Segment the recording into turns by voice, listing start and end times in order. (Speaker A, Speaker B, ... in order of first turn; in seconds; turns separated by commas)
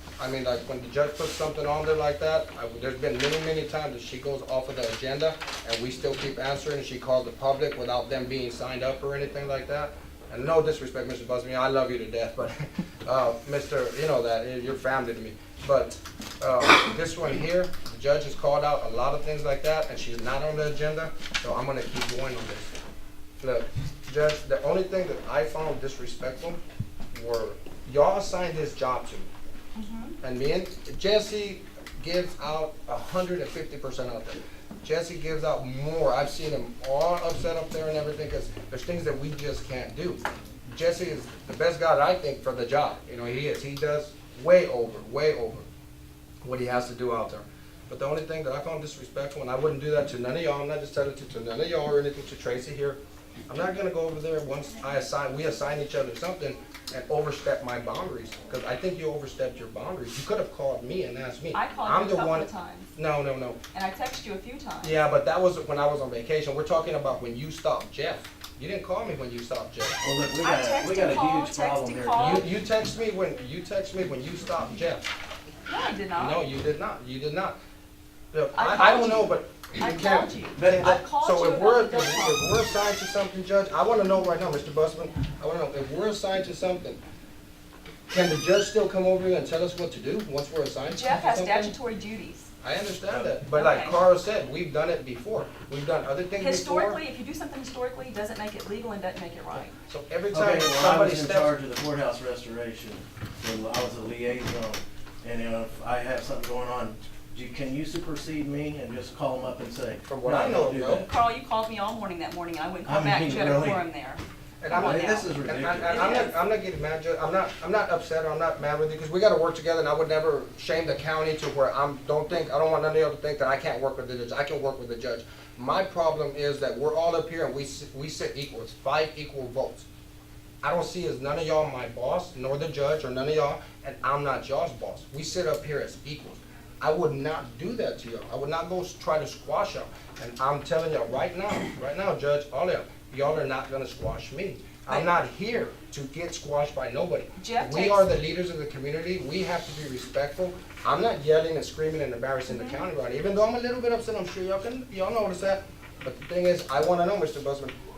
Speaker A: 0.2-22.7, Speaker A: 23.4-26.6, Speaker A: 27.1-29.3, Speaker B: 29.8-30.2, Speaker A: 30.2-45.7, Speaker A: 46.4-53.0, Speaker A: 53.5-63.6, Speaker B: 61.5-63.0, Speaker B: 63.7-65.0, Speaker A: 64.8-70.0, Speaker C: 70.0-72.5, Speaker B: 70.4-72.5, Speaker A: 72.2-75.0, Speaker B: 75.7-76.4, Speaker A: 76.2-77.6, Speaker A: 78.3-87.0, Speaker B: 78.5-82.5, Speaker C: 80.6-81.0, Speaker A: 88.1-91.8, Speaker B: 90.9-92.5, Speaker A: 92.6-97.0, Speaker B: 93.5-94.0, Speaker B: 96.4-99.7, Speaker A: 99.8-101.5, Speaker C: 100.3-111.1, Speaker A: 110.1-111.0, Speaker B: 111.0-116.3, Speaker C: 112.9-113.8, Speaker A: 114.6-129.9, Speaker C: 114.7-116.3, Speaker A: 130.6-157.7, Speaker B: 147.4-148.1, Speaker B: 152.5-152.8